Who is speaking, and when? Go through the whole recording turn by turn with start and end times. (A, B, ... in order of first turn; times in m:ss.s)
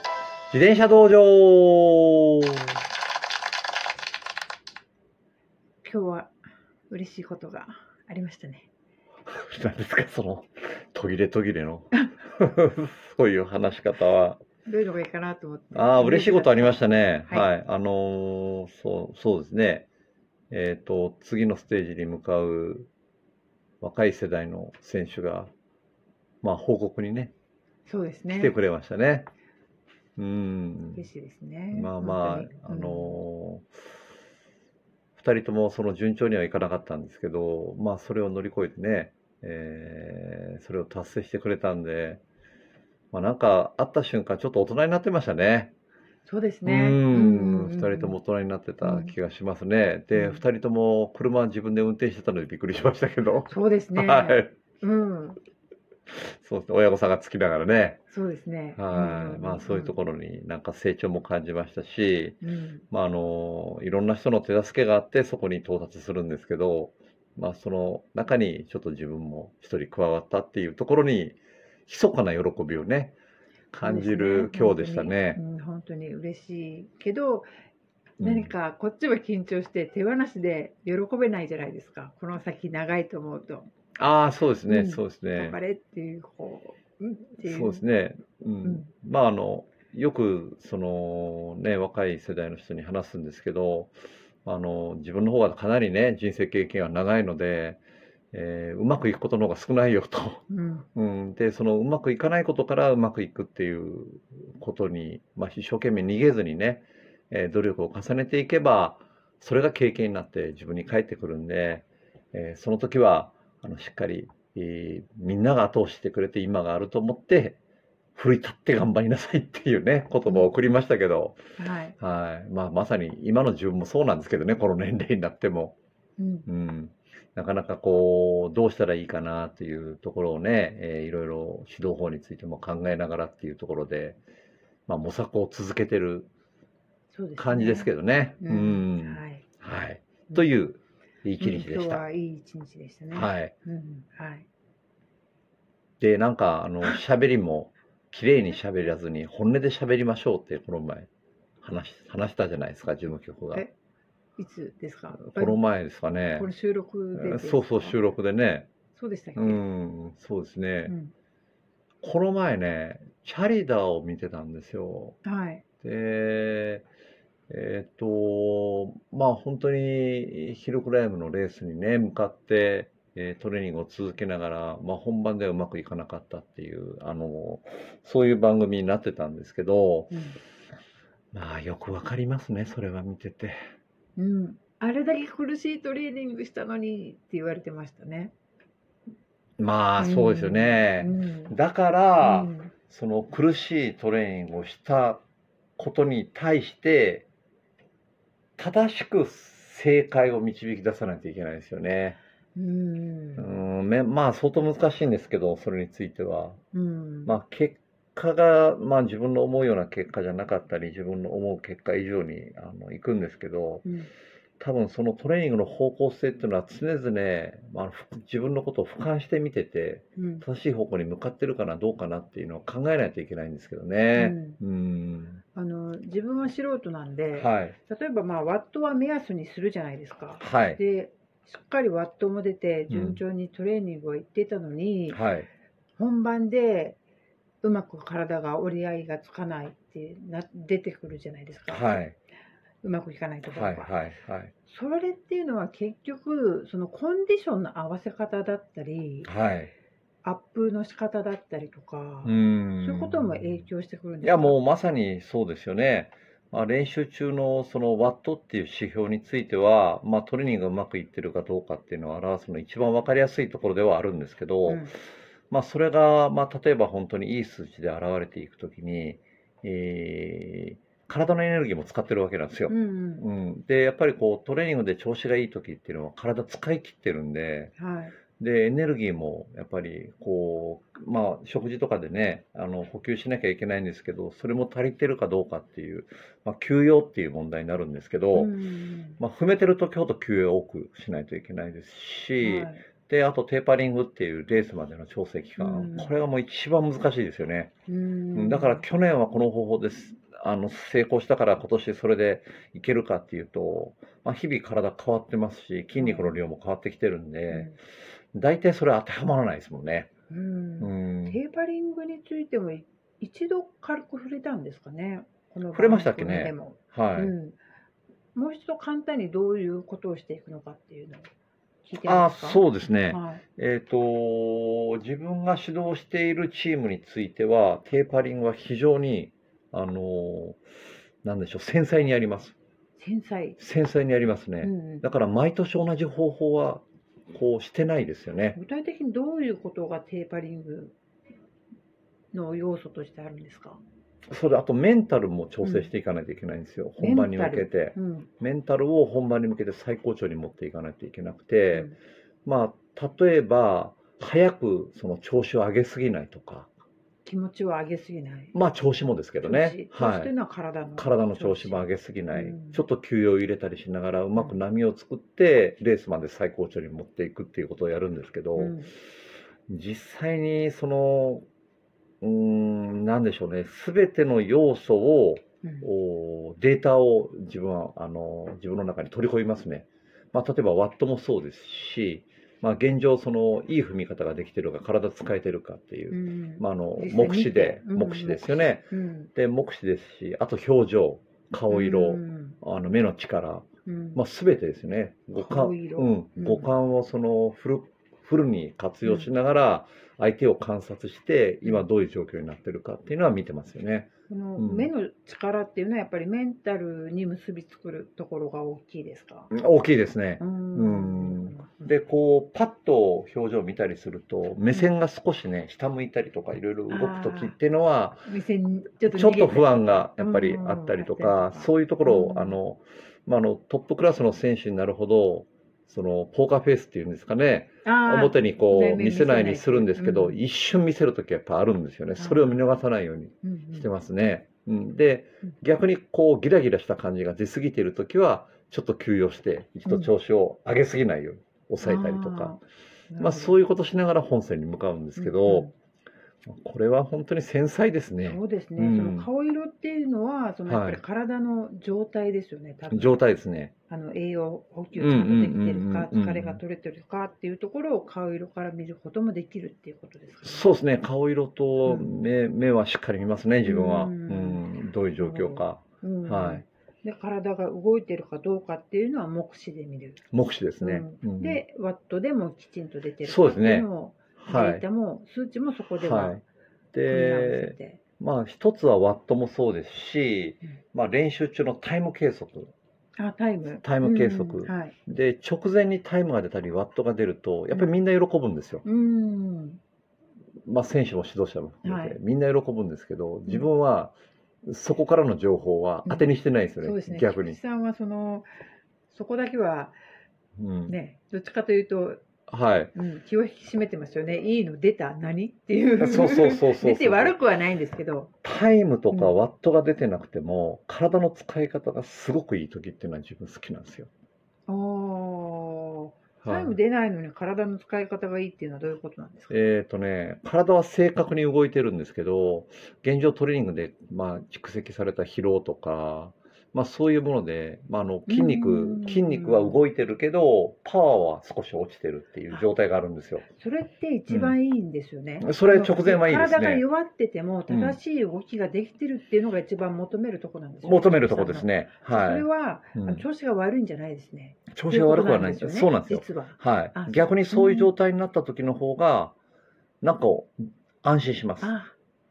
0:00.5-0:02.8 A
0:05.8-0:06.3 B
0:06.9-0:08.7 B
0:09.3-0:14.4 A
0:14.6-0:17.5 B
0:15.7-0:19.9 A
0:20.5-0:22.9 A
0:23.8-0:25.5 A
0:26.4-0:27.3 A
0:27.9-0:28.5 B
0:28.3-0:29.3 A
0:30.2-0:31.0 A
0:30.9-0:33.2 B
0:31.7-0:33.7 A
0:35.2-0:42.2 A
0:43.1-0:45.7 A
0:46.2-0:48.2 B
0:46.6-0:54.5 A
0:48.8-0:49.1 B
0:50.1-0:50.4 B
0:53.5-0:55.4 B
0:56.1-0:58.0 A
0:58.1-1:00.0 B
0:58.8-1:02.4 A
1:02.4-1:02.8 B
1:02.9-1:13.1 A
1:13.7-1:15.4 A
1:13.8-1:17.5 B
1:18.2-1:18.5 A
1:18.2-1:23.7 B
1:24.0-1:25.6 A
1:24.7-1:27.8 B
1:27.4-1:33.9 A
1:34.4-1:57.6 A
1:40.5-1:40.8 B
1:58.2-2:01.4 A
2:01.6-2:02.0 B
2:02.0-2:05.8 A
2:06.2-2:06.5 B
2:06.5-2:14.2 A
2:14.9-2:16.3 A
2:17.1-2:19.4 B
2:17.4-2:22.0 A
2:21.4-2:24.4 B
2:23.1-2:23.5 A
2:26.0-2:31.1 A
2:31.6-2:33.6 A
2:34.4-2:35.6 B
2:35.2-2:36.5 A
2:36.3-2:38.0 B
2:37.2-2:38.7 A
2:38.9-2:39.6 B
2:39.4-2:40.9 A
2:40.9-2:41.1 B
2:42.0-2:45.2 A
2:45.2-2:45.6 B
2:45.8-2:46.8 A
2:47.5-3:00.1 A
3:00.1-3:00.4 B
3:01.3-3:03.6 A
3:04.2-3:08.3 B
3:09.6-3:15.2 A
3:10.0-3:11.5 B
3:12.2-3:12.7 B
3:15.8-3:17.3 A
3:18.6-3:22.2 A
3:22.6-3:23.6 B
3:23.4-3:26.6 A
3:26.7-3:27.3 B
3:27.3-3:33.8 A
3:34.6-3:45.4 A
3:40.2-3:40.4 B
3:44.1-3:44.6 B
3:45.5-3:55.2 B
3:47.4-3:47.8 A
3:50.4-3:50.8 A
3:52.9-3:53.2 A
3:55.1-3:55.5 A
3:56.0-3:57.0 B
3:57.6-4:02.0 B
4:01.7-4:02.2 A
4:02.8-4:03.9 B
4:03.4-4:04.5 A
4:04.7-4:09.3 B
4:09.2-4:09.7 A
4:10.2-4:14.6 B
4:12.2-4:13.5 A
4:14.2-4:24.9 A
4:25.5-4:37.7 A
4:32.7-4:33.2 B
4:37.8-4:38.1 B
4:38.4-4:48.5 A
4:48.4-4:49.2 B
4:49.2-4:57.7 A
4:52.4-4:52.8 B
4:55.6-4:56.1 B
4:57.9-4:58.8 B
4:58.3-5:07.7 A
5:06.0-5:06.3 B
5:08.3-5:10.1 A
5:10.3-5:17.6 B
5:10.8-5:11.4 A
5:15.7-5:17.4 A
5:18.4-5:21.3 B
5:21.8-5:23.4 B
5:22.1-5:30.6 A
5:31.2-5:32.6 A
5:33.0-5:33.6 B
5:33.6-5:38.6 A
5:34.6-5:35.0 B
5:38.6-5:40.9 B
5:42.3-5:43.8 B
5:44.3-5:51.9 A
5:45.6-5:45.9 B
5:47.0-5:48.3 B
5:52.4-5:56.7 A
5:57.2-5:58.6 B
5:58.5-6:00.3 A
5:59.4-6:02.8 B
6:01.0-6:08.8 A
6:08.6-6:08.9 B
6:09.7-6:11.4 A
6:12.2-6:44.9 A
6:26.1-6:29.3 B
6:31.7-6:32.6 B
6:33.9-6:34.2 B
6:35.4-6:36.7 B
6:39.0-6:39.3 B
6:44.3-6:49.5 B
6:49.5-6:58.3 A
6:50.4-6:51.8 B
6:56.9-6:57.6 B
6:58.3-7:02.6 B
6:59.0-7:22.6 A
7:07.8-7:10.4 B
7:12.2-7:12.6 B
7:13.4-7:13.9 B
7:19.9-7:20.1 B
7:21.8-7:23.6 B
7:23.2-7:25.7 A
7:25.2-7:25.7 B
7:26.5-7:29.3 A
7:28.2-7:33.2 B
7:30.7-7:31.0 A
7:32.9-7:33.7 A
7:33.9-7:40.7 B
7:35.0-7:36.6 A
7:40.4-7:46.6 A
7:41.8-7:42.1 B
7:43.6-7:50.2 B
7:50.3-7:51.6 A
7:50.8-7:56.4 B
7:53.2-7:53.9 A
7:54.4-7:54.8 A
7:56.0-7:56.4 A
7:56.9-8:02.7 A
7:57.1-7:58.0 B
8:03.2-8:04.9 B
8:03.8-8:08.8 A
8:08.8-8:09.8 B
8:10.6-8:17.6 A
8:11.8-8:12.2 B
8:16.1-8:18.5 B
8:19.1-8:20.0 B
8:20.6-8:21.0 A
8:20.9-8:22.2 B
8:22.5-8:22.9 A
8:23.0-8:28.3 B
8:26.0-8:27.4 A
8:28.4-8:34.1 A
8:34.7-8:39.6 B
8:36.4-8:36.8 A
8:39.5-8:53.4 A
8:48.3-8:49.8 B
8:53.6-9:07.9 B
8:54.3-8:54.6 A
8:55.4-8:56.8 A
8:57.7-8:58.0 A
9:00.8-9:03.2 A
9:04.7-9:09.4 A
9:10.0-9:11.7 A
9:11.6-9:11.9 B